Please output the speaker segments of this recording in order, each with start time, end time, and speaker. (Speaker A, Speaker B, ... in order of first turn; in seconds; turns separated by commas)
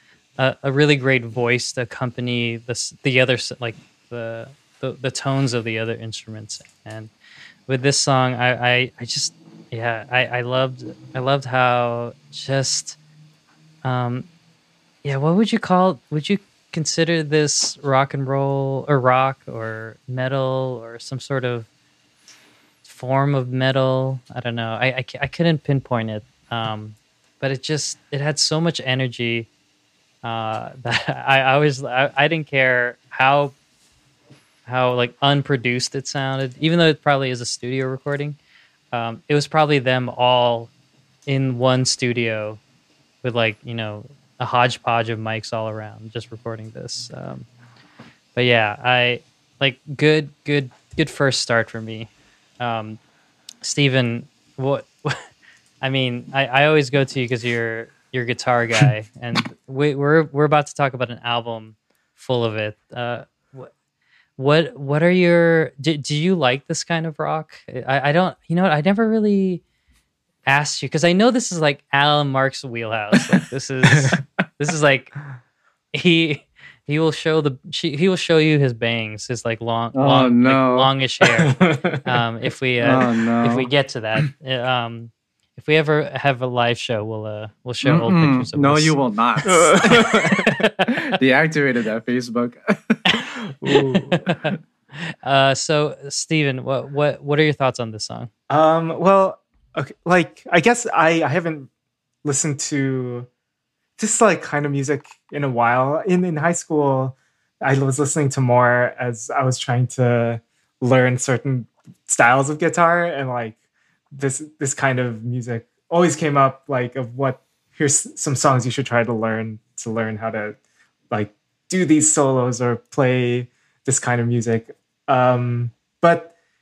Speaker A: 0.4-7.1, Speaker A: 7.7-13.0, Speaker A: 13.8-14.3, Speaker A: 15.0-21.7, Speaker A: 22.9-29.5, Speaker A: 30.2-33.5, Speaker A: 34.7-38.4, Speaker A: 38.9-40.7, Speaker A: 41.3-42.6, Speaker A: 43.2-47.5, Speaker A: 48.4-53.0, Speaker A: 53.6-55.3, Speaker A: 55.8-63.7, Speaker A: 64.4-69.6, Speaker A: 70.5-75.2, Speaker A: 75.9-90.9, Speaker B: 79.9-80.9, Speaker C: 81.4-82.0, Speaker B: 82.8-83.7, Speaker B: 87.8-93.0, Speaker C: 89.5-90.6, Speaker C: 93.6-94.3, Speaker A: 93.7-98.3, Speaker C: 98.5-101.7, Speaker C: 102.2-103.3, Speaker C: 104.0-113.6, Speaker C: 114.1-120.6, Speaker C: 121.1-126.3